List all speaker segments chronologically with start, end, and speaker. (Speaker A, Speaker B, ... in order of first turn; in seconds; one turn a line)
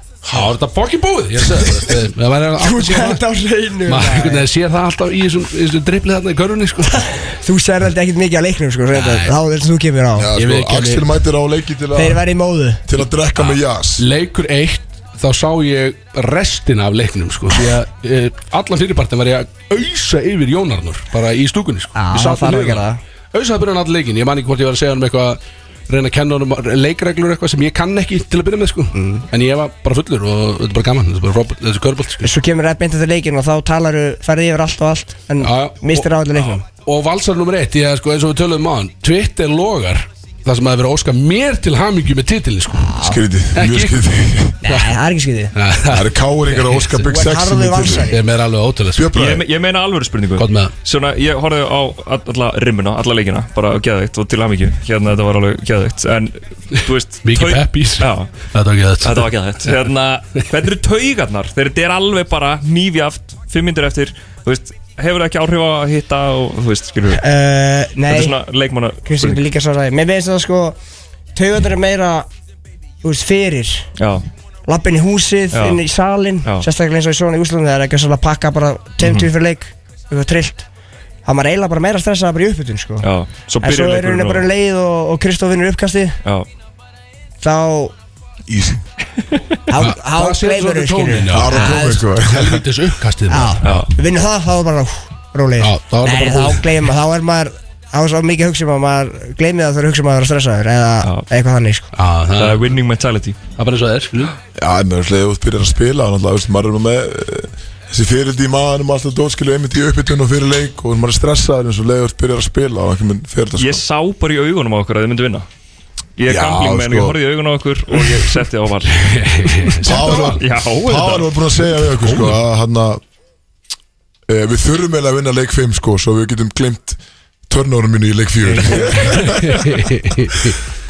Speaker A: 0.2-0.5
Speaker B: 0.3-3.2
Speaker C: 2.6-4.5
Speaker B: 3.8-7.0
Speaker C: 7.3-10.3
Speaker B: 8.9-9.3
Speaker A: 10.2-12.2
Speaker B: 10.3-11.1
Speaker C: 11.9-12.8
Speaker A: 12.8-14.0
Speaker B: 13.4-32.3
Speaker C: 21.9-23.0
Speaker C: 28.9-29.2
Speaker C: 32.2-36.6
Speaker B: 35.4-36.1
Speaker B: 36.7-42.9
Speaker C: 42.9-43.2
Speaker A: 43.0-44.6
Speaker B: 43.5-44.1
Speaker C: 44.6-45.5
Speaker B: 44.6-44.9
Speaker B: 45.5-47.1
Speaker A: 45.9-48.1
Speaker C: 47.0-48.2
Speaker B: 48.1-49.1
Speaker A: 48.9-49.4
Speaker D: 49.1-58.3
Speaker B: 50.4-50.7
Speaker B: 57.2-59.8
Speaker D: 59.0-67.2
Speaker C: 67.2-68.3
Speaker D: 68.1-69.4
Speaker C: 69.0-70.8
Speaker C: 71.3-72.3
Speaker C: 73.0-73.9
Speaker D: 74.0-74.2
Speaker C: 74.7-80.6
Speaker D: 75.5-75.8
Speaker D: 79.0-79.3
Speaker C: 81.2-83.0
Speaker D: 83.0-84.5
Speaker C: 83.6-86.2
Speaker C: 87.4-87.9
Speaker A: 88.5-88.8
Speaker C: 89.7-92.0
Speaker B: 89.8-93.8
Speaker A: 91.3-92.6
Speaker C: 93.3-101.9
Speaker D: 93.6-93.9
Speaker B: 95.6-96.7
Speaker D: 101.0-101.3
Speaker B: 101.9-102.6
Speaker D: 102.3-103.4
Speaker B: 103.6-104.3
Speaker A: 104.5-113.8
Speaker D: 113.6-115.5
Speaker D: 116.2-121.3
Speaker A: 116.3-117.2
Speaker B: 119.0-120.2
Speaker A: 119.8-123.0
Speaker B: 122.0-122.4
Speaker A: 124.3-129.6
Speaker B: 128.5-130.6